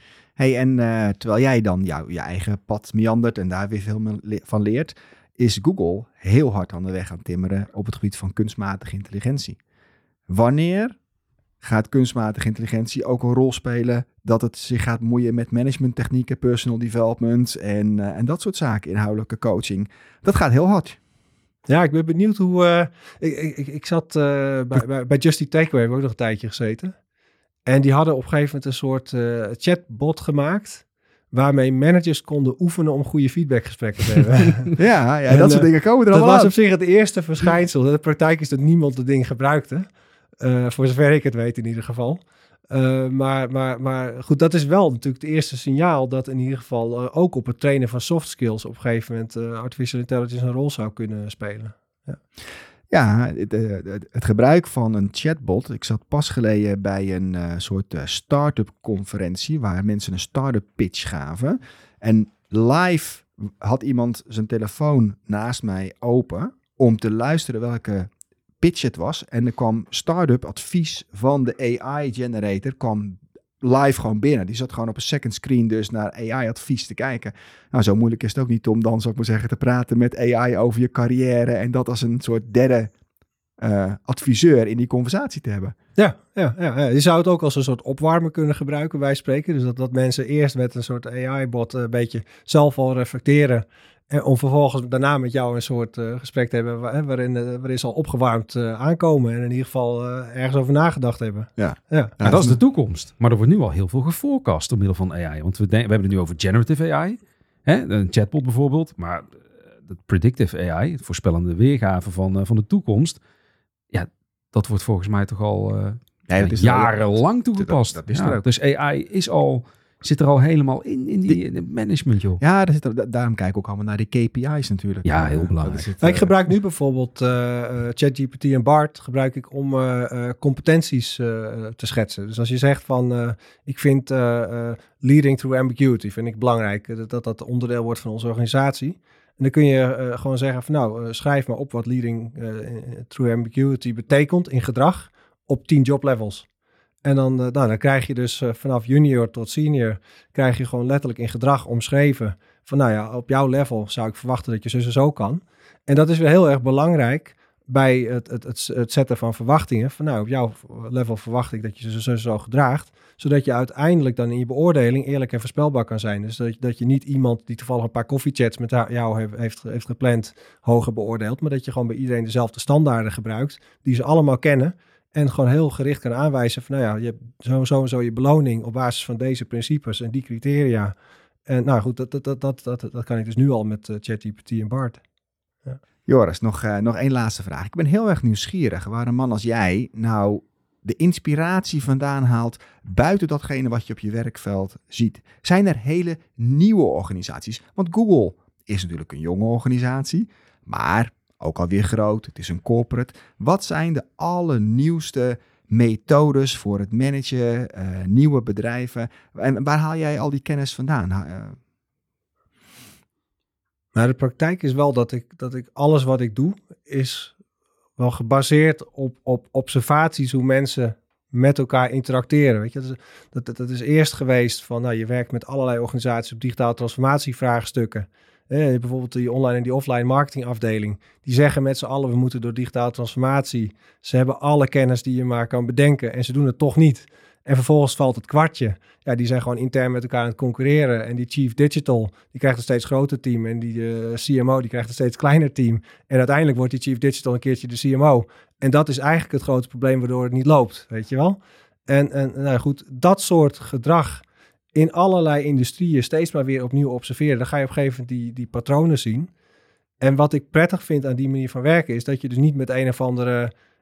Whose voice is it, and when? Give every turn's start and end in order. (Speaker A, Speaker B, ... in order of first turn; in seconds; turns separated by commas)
Speaker A: 0.4-9.6, Speaker A: 10.3-11.0, Speaker A: 11.6-21.0, Speaker B: 21.7-26.9, Speaker B: 27.6-34.7, Speaker A: 34.8-36.5, Speaker B: 35.3-39.9, Speaker B: 40.4-52.2, Speaker A: 52.9-82.9, Speaker A: 83.6-85.7, Speaker B: 86.0-102.2, Speaker A: 101.6-102.6, Speaker C: 102.2-113.2, Speaker C: 113.9-122.4, Speaker A: 116.3-118.4, Speaker A: 122.4-126.3, Speaker C: 125.0-125.9, Speaker B: 126.0-146.4, Speaker B: 147.0-180.9, Speaker B: 181.5-185.0, Speaker A: 186.1-211.6, Speaker B: 213.9-217.3, Speaker B: 218.0-259.3, Speaker B: 260.0-263.5